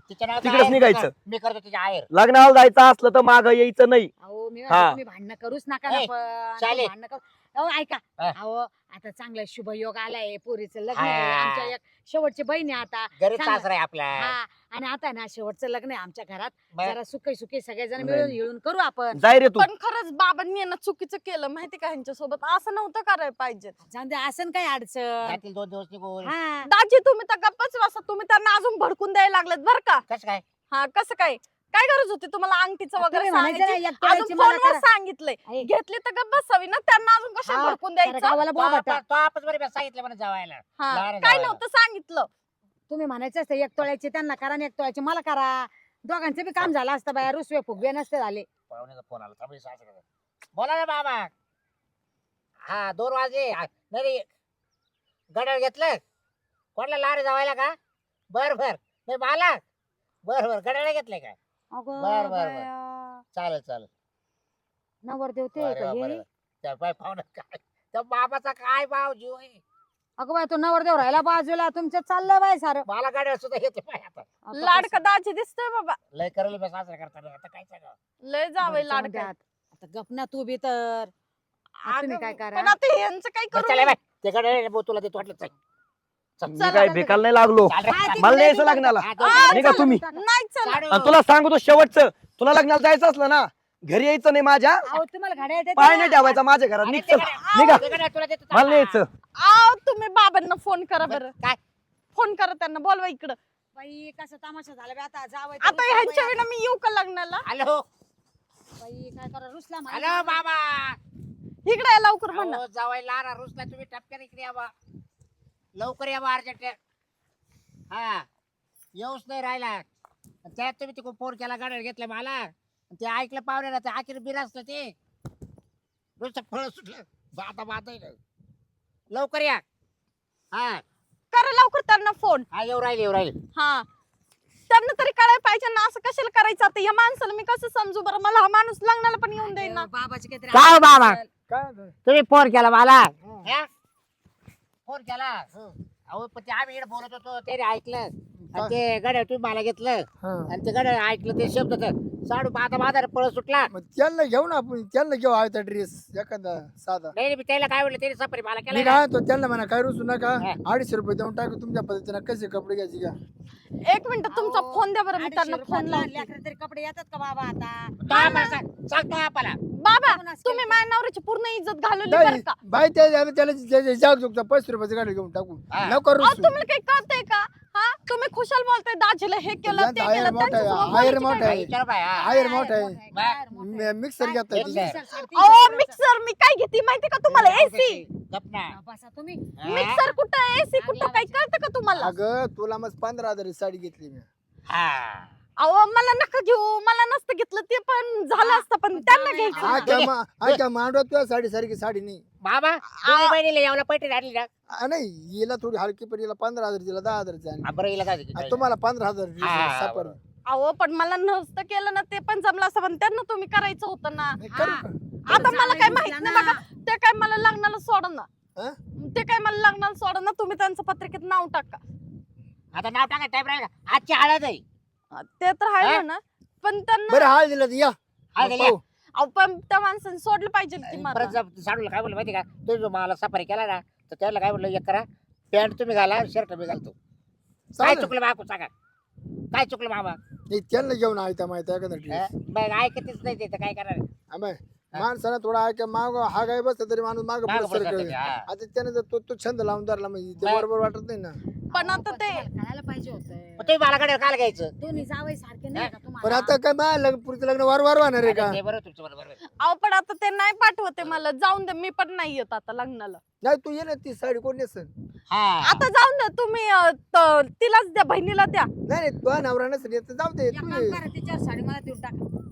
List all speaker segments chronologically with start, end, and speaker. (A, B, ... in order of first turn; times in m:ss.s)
0:00.1-0:02.1 A
0:00.4-0:01.1 B
0:02.1-0:04.1 B
0:04.2-0:19.2 C
0:04.7-0:05.0 B
0:05.9-0:06.9 A
0:10.9-0:11.7 A
0:13.2-0:14.4 A
0:18.0-0:18.4 B
0:19.2-0:19.7 B
0:19.6-0:23.8 D
0:23.8-0:25.4 C
0:25.2-0:26.3 A
0:26.2-0:26.7 C
0:26.7-0:30.0 D
0:30.1-0:30.4 A
0:30.7-0:38.4 D
0:33.0-0:34.8 C
0:37.5-0:39.0 C
0:38.5-0:41.6 A
0:40.8-0:42.3 D
0:42.9-0:48.5 C
0:48.7-0:50.0 A
0:50.6-0:51.3 A
0:52.7-0:54.3 A
0:55.3-0:56.0 A
0:56.8-0:57.8 A
0:58.3-0:59.6 A
1:00.2-1:01.4 A
1:01.7-1:03.2 C
1:02.0-1:02.7 A
1:03.3-1:03.9 A
1:05.0-1:06.2 C
1:05.6-1:09.6 A
1:10.2-1:12.8 C
1:12.9-1:14.4 A
1:14.4-1:15.0 C
1:14.5-1:16.0 D
1:16.1-1:18.0 A
1:18.2-1:19.3 D
1:18.6-1:21.1 C
1:21.8-1:22.8 C
1:21.8-1:24.0 D
1:23.5-1:25.5 A
1:26.4-1:26.7 A
1:26.5-1:30.0 B
1:26.6-1:27.0 D
1:26.6-1:27.2 C
1:27.7-1:28.4 A
1:27.9-1:30.2 C
1:29.0-1:29.5 A
1:29.2-1:30.8 D
1:30.6-1:31.2 A
1:30.9-1:34.9 B
1:34.9-1:36.4 C
1:35.8-1:37.9 B
1:36.8-1:39.0 A
1:37.2-1:38.0 D
1:38.5-1:39.1 B
1:39.4-1:41.3 D
1:41.1-1:41.6 A
1:42.2-1:43.4 D
1:43.8-1:46.4 C
1:45.6-1:47.5 D
1:47.4-1:47.8 A
1:48.8-1:50.4 C
1:49.9-1:51.0 A
1:51.7-1:52.6 D
1:52.3-1:54.7 A
1:55.8-1:56.8 A
1:57.9-1:58.3 A
1:59.0-1:59.9 A
2:00.4-2:05.0 A
2:06.2-2:08.2 A
2:09.1-2:09.6 A
2:10.5-2:10.8 A
2:11.3-2:12.5 D
2:12.5-2:13.4 A
2:13.5-2:13.9 D
2:14.7-2:19.9 D
2:19.4-2:21.3 C
2:20.5-2:21.2 A
2:21.5-2:22.0 E
2:22.0-2:23.7 A
2:23.2-2:23.5 E
2:24.9-2:33.7 A
2:28.4-2:28.8 E
2:30.2-2:30.5 E
2:33.7-2:37.2 E
2:37.1-2:39.0 A
2:38.7-2:43.2 E
2:43.8-2:46.3 D
2:44.3-2:48.0 C
2:48.0-2:49.6 A
2:48.1-2:48.6 D
2:49.8-2:52.6 D
2:50.0-2:50.8 C
2:52.1-2:56.6 E
2:55.7-2:56.0 A
2:56.2-3:01.6 D
2:59.6-3:01.7 E
3:01.3-3:02.3 A
3:02.2-3:06.0 C
3:02.2-3:02.6 D
3:02.3-3:05.0 E
3:03.1-3:03.4 A
3:04.5-3:05.0 A
3:05.3-3:08.1 D
3:07.3-3:08.8 A
3:08.7-3:10.2 C
3:09.6-3:10.0 A
3:09.7-3:12.2 D
3:10.7-3:11.4 C
3:12.0-3:14.3 E
3:14.7-3:15.3 A
3:15.6-3:20.0 D
3:18.4-3:20.0 C
3:19.5-3:22.2 E
3:19.9-3:20.6 A
3:22.4-3:24.5 A
3:22.9-3:23.4 D
3:24.7-3:27.7 E
3:27.6-3:28.7 A
3:28.4-3:30.2 E
3:29.4-3:30.2 A
3:30.5-3:34.4 D
3:34.4-3:35.0 E
3:34.4-3:36.6 C
3:35.3-3:38.3 D
3:39.0-3:41.8 D
3:42.7-3:44.6 A
3:45.1-3:47.3 D
3:47.1-3:48.8 E
3:48.4-3:48.8 A
3:49.2-3:51.4 D
3:50.8-3:57.0 A
3:57.7-3:58.2 E
3:57.8-3:58.7 A
3:59.5-4:00.2 A
4:00.5-4:02.3 E
4:02.1-4:04.1 A
4:04.3-4:11.4 E
4:07.4-4:08.5 A
4:10.4-4:10.7 A
4:11.7-4:13.8 C
4:11.7-4:12.5 D
4:13.6-4:15.0 A
4:14.8-4:16.6 C
4:16.2-4:18.6 E
4:18.2-4:19.4 A
4:19.6-4:23.2 D
4:23.4-4:24.9 E
4:25.3-4:25.8 A
4:25.6-4:28.7 D
4:28.9-4:31.0 E
4:30.5-4:32.3 C